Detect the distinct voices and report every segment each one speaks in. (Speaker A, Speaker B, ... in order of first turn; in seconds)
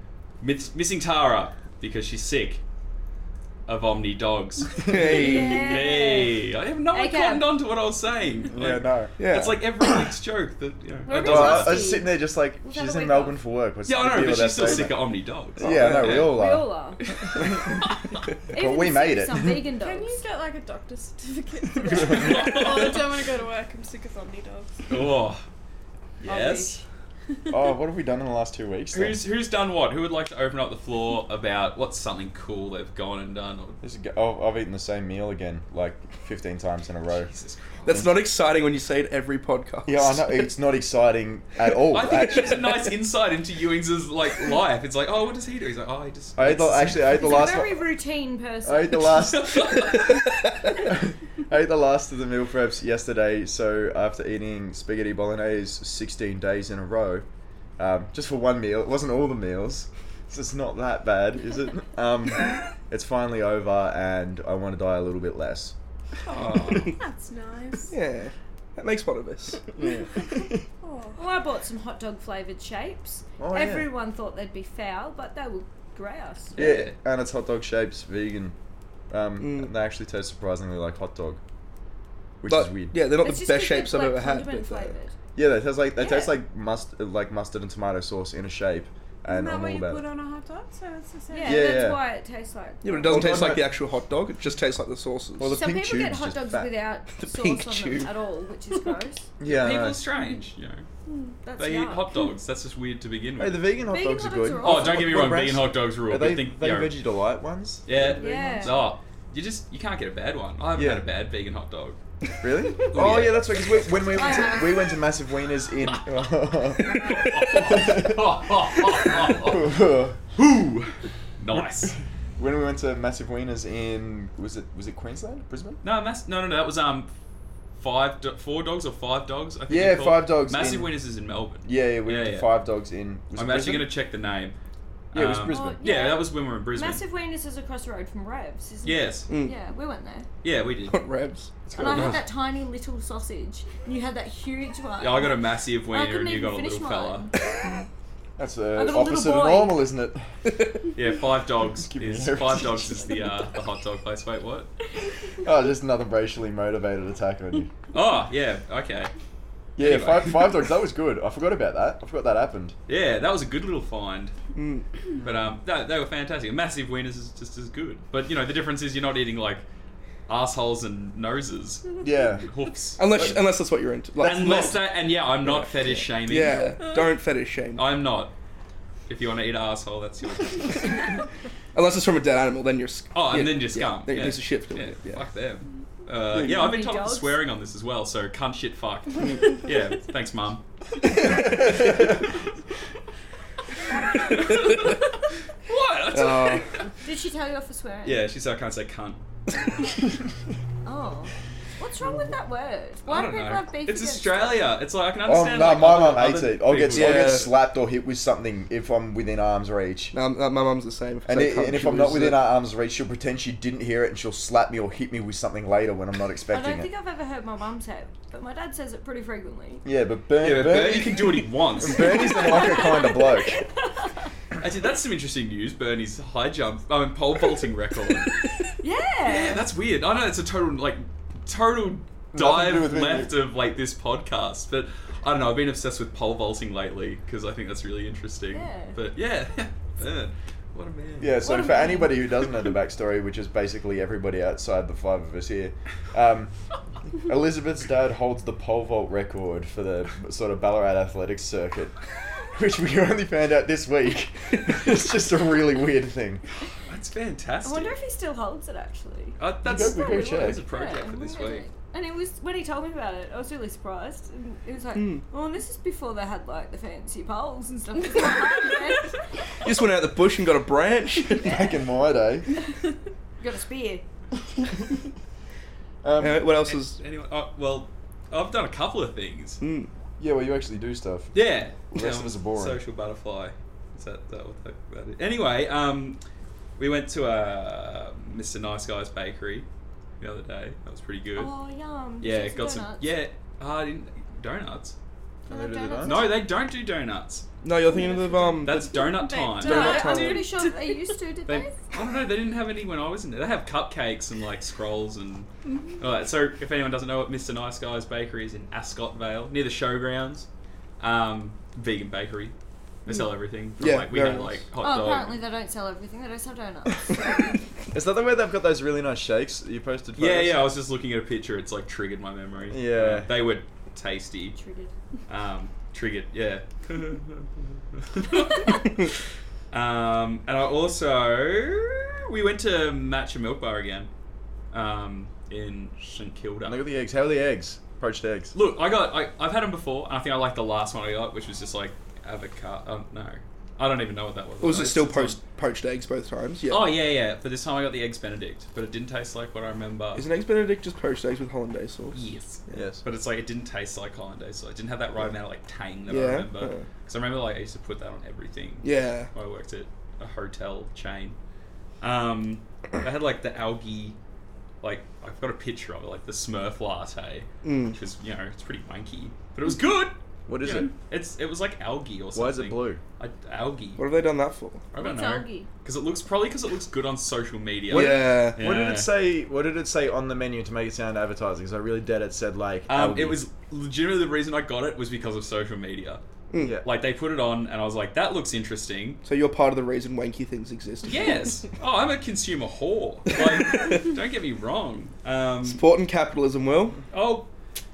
Speaker A: 0.4-2.6, 3.7-11.9, 13.9-16.4, 17.0-18.3, 21.9-23.0, 24.9-25.4, 26.2-26.8, 28.9-33.8, 37.1-38.1, 41.9-47.5, 49.0-50.5, 66.2-67.0, 76.5-77.0, 99.5-100.8, 101.6-103.7, 104.6-106.9, 107.8-112.0, 112.9-113.8, 117.1-119.7, 121.4-121.9, 125.8-127.1, 127.8-132.5, 133.3-134.6, 135.1-137.0, 138.8-139.3, 140.4-141.0, 145.0-147.3, 151.0-154.7, 157.9-159.1, 159.8-160.6, 162.9-164.3, 165.2-169.6, 170.3-173.4, 174.2-176.8, 177.8-178.3, 179.1-181.2, 183.1-192.0, 194.1-196.9, 198.1-199.2, 203.1-207.5, 220.4-222.6, 224.6-228.4, 229.2-241.5, 256.9-257.9, 259.4-261.6, 276.6-279.6, 281.3-286.2, 286.8-289.7, 290.2-291.5, 292.2-294.9, 296.0-297.4, 298.6-300.2, 301.5-310.5, 311.0-312.5, 313.1-315.4, 320.2-324.6, 325.3-329.1, 329.7-334.1, 334.7-336.8, 338.5-345.4, 346.7-350.3, 352.1-361.4, 362.0-364.2, 364.8-374.0, 374.9-379.1, 382.9-386.2, 386.8-389.2, 391.1-395.8, 397.1-397.5
Speaker B: 4.8-5.5, 8.5-9.1, 11.2-16.7, 17.4-17.8, 18.5-19.6, 27.5-29.2, 33.8-37.3, 39.8-42.8, 46.4-47.8, 48.6-49.8, 50.8-57.2, 57.8-65.7, 69.8-70.6, 73.4-73.9, 76.5-78.5, 79.1-81.4, 82.4-83.0, 85.4-90.0, 91.4-92.0, 93.0-93.8, 95.4-96.7, 99.4-100.0, 103.4-108.8, 110.7-111.1, 112.4-120.9, 122.4-125.8, 129.7-130.9, 131.6-133.9, 135.1-135.8, 141.7-142.2, 148.4-150.2, 151.8-153.2, 155.4-157.7, 159.8-162.8, 172.0-172.5, 205.2-210.2, 211.2-216.9, 219.8-223.6, 232.3-233.3, 241.2-246.5, 247.1-251.9, 252.5-256.4, 259.6-260.6, 271.4-272.5, 276.0-276.4, 280.2-281.3, 281.9-282.8, 295.5-296.2, 317.9-320.7, 322.7-323.3, 336.6-338.6, 352.7-353.0, 370.5-370.9, 372.3-373.0, 377.9-383.4, 386.6-386.9
Speaker C: 4.8-5.7, 9.2-9.6, 15.6-16.3, 37.9-40.1, 49.8-50.7, 67.9-69.7, 79.4-79.7, 82.5-84.9, 92.8-95.6, 97.2-98.1, 117.0-117.5, 139.3-139.6, 140.9-141.5, 164.6-164.9, 173.0-174.9, 175.4-177.8, 181.7-185.3, 186.3-186.7, 191.0-192.0, 194.6-195.0, 196.1-196.8, 206.9-207.5, 210.1-212.5, 264.9-265.2, 269.6-271.5, 276.2-277.0, 279.6-279.9, 297.6-299.1, 299.6-300.5, 313.8-314.6, 344.6-347.0, 350.1-352.8, 356.1-356.9, 358.8-359.3, 367.6-368.0, 374.0-374.9, 377.9-378.6, 386.5-386.8, 389.2-391.5, 393.3-394.1, 395.6-397.0
Speaker D: 5.0-7.5, 11.1-13.4, 16.1-17.0, 18.5-20.2, 26.2-26.8, 47.1-49.3, 71.2-76.6, 83.2-85.1, 86.0-86.3, 91.3-93.3, 95.5-99.3, 101.4-102.1, 103.9-105.2, 108.2-108.9, 114.1-115.0, 135.5-140.3, 141.8-147.3, 148.8-149.8, 186.4-187.4, 197.0-198.2, 200.8-204.7, 216.5-219.8, 222.1-224.2, 228.8-229.7, 238.5-239.0, 241.4-242.3, 257.6-269.2, 273.4-274.0, 291.4-293.2, 295.5-296.4, 299.6-301.8, 314.8-317.6, 324.5-324.9, 375.0-375.7
Speaker E: 19.8-24.9, 27.3-27.6, 66.9-67.9, 70.2-71.2, 89.2-91.8, 101.1-101.3, 176.5-177.1, 297.9-301.1